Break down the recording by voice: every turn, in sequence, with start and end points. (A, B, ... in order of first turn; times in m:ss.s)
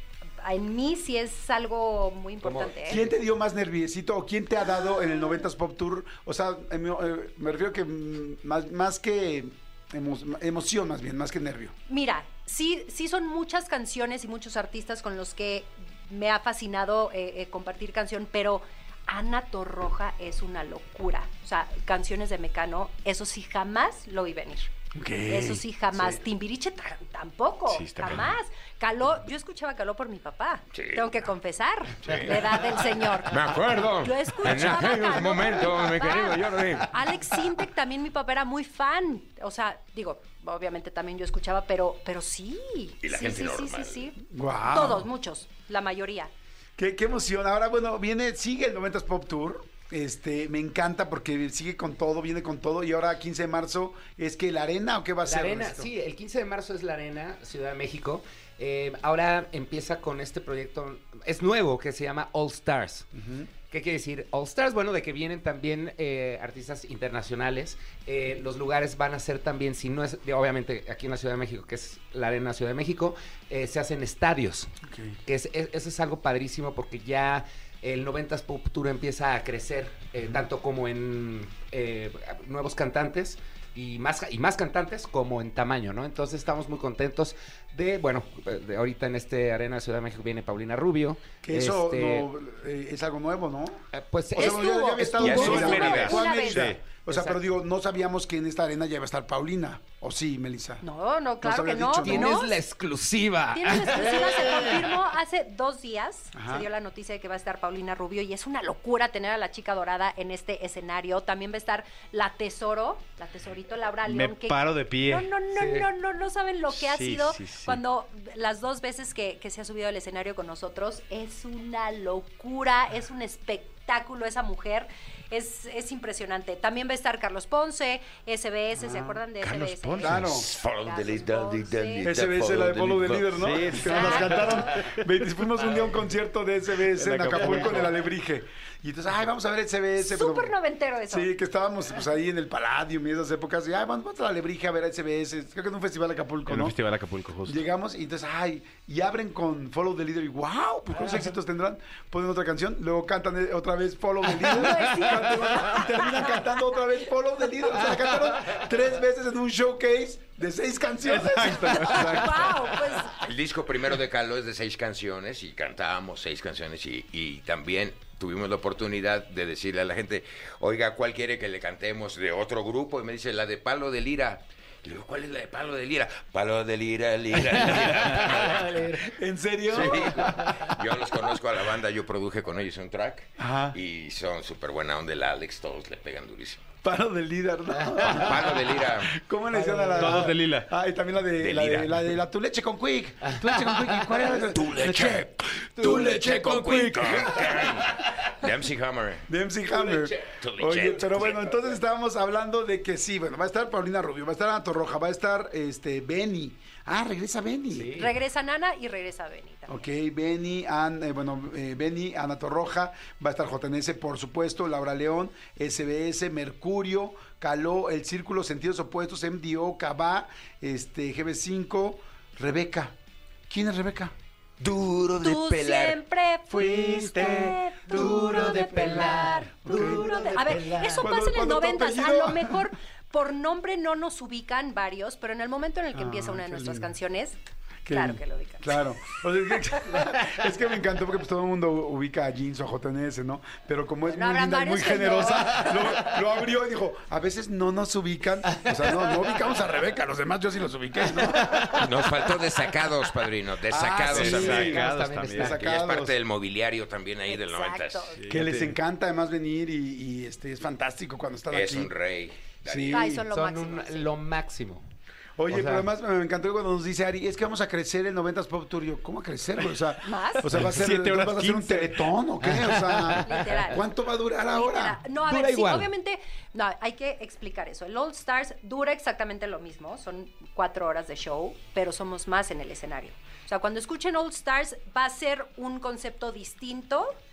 0:00.4-0:03.0 A
0:02.4-0:03.1 B
0:02.9-0:11.7 C
0:11.9-0:24.7 A
0:24.9-0:26.1 C
0:25.3-0:46.3 A
0:27.7-0:28.3 D
0:30.7-0:31.3 E
0:32.0-0:36.9 E
0:43.0-0:44.1 E
0:44.3-0:45.1 C
0:46.8-0:55.9 C
0:55.2-1:03.1 B
1:03.1-1:03.5 C
1:03.7-1:14.7 B
1:14.9-1:15.2 C
1:15.2-1:32.3 B
1:31.4-1:33.8 C
1:33.9-1:35.9 B
1:34.3-1:40.8 C
1:34.4-1:36.7 A
1:35.1-1:36.8 D
1:35.2-1:36.1 E
1:37.1-1:37.4 B
1:40.8-1:42.6 A
1:41.4-1:42.4 C
1:42.0-1:44.7 B
1:43.5-2:12.1 A
1:43.9-1:44.8 C
1:46.3-1:46.7 C
1:54.0-1:55.3 D
1:55.5-1:55.9 B
1:56.7-1:57.8 D
2:08.8-2:09.2 C
2:09.4-2:10.4 D
2:10.0-2:10.5 C
2:10.2-2:13.6 E
2:12.0-2:20.5 C
2:13.4-2:14.6 D
2:13.8-2:14.9 A
2:16.9-2:17.9 D
2:20.0-2:21.3 A
2:21.1-2:26.8 C
2:26.5-2:27.6 D
2:27.4-2:42.2 C
2:34.4-2:36.4 A
2:41.1-2:42.8 D
2:41.6-2:43.2 A
2:43.1-2:59.0 E
2:57.6-2:59.1 B
2:59.0-3:00.8 C
2:59.7-3:06.6 E
2:59.9-3:00.7 B
3:03.4-3:03.8 C
3:06.8-3:17.9 C
3:07.8-3:08.2 B
3:08.0-3:09.2 E
3:09.5-3:10.2 B
3:10.0-3:10.7 D
3:11.4-3:12.2 E
3:13.2-3:14.2 B
3:14.4-3:19.3 E
3:19.3-3:28.0 C
3:19.7-3:20.2 B
3:20.2-3:21.7 E
3:27.7-3:28.1 B
3:28.0-3:29.8 A
3:29.7-3:43.0 C
3:43.5-3:44.1 C
3:44.6-3:46.0 E
3:45.2-3:57.4 A
3:46.5-3:52.7 C
3:48.2-3:51.0 B
3:55.9-3:56.9 C
3:57.8-4:11.9 C
3:57.9-3:58.8 A
4:04.1-4:06.0 A
4:11.4-4:11.7 B
4:11.7-4:14.8 E
4:13.7-4:16.2 C
4:13.8-4:15.6 D
4:14.2-4:15.6 B
4:15.6-4:18.2 E
4:17.3-4:18.2 A
4:18.2-4:18.7 D
4:18.3-4:21.9 C
4:21.5-4:23.1 E
4:22.6-4:23.2 C
4:22.9-4:24.1 A
4:23.2-4:24.8 B
4:25.4-4:35.0 C
4:25.5-4:25.9 B
4:30.0-4:30.5 A
4:30.5-4:32.1 D
4:32.4-4:33.4 B
4:33.2-4:47.1 A
4:35.2-4:35.9 B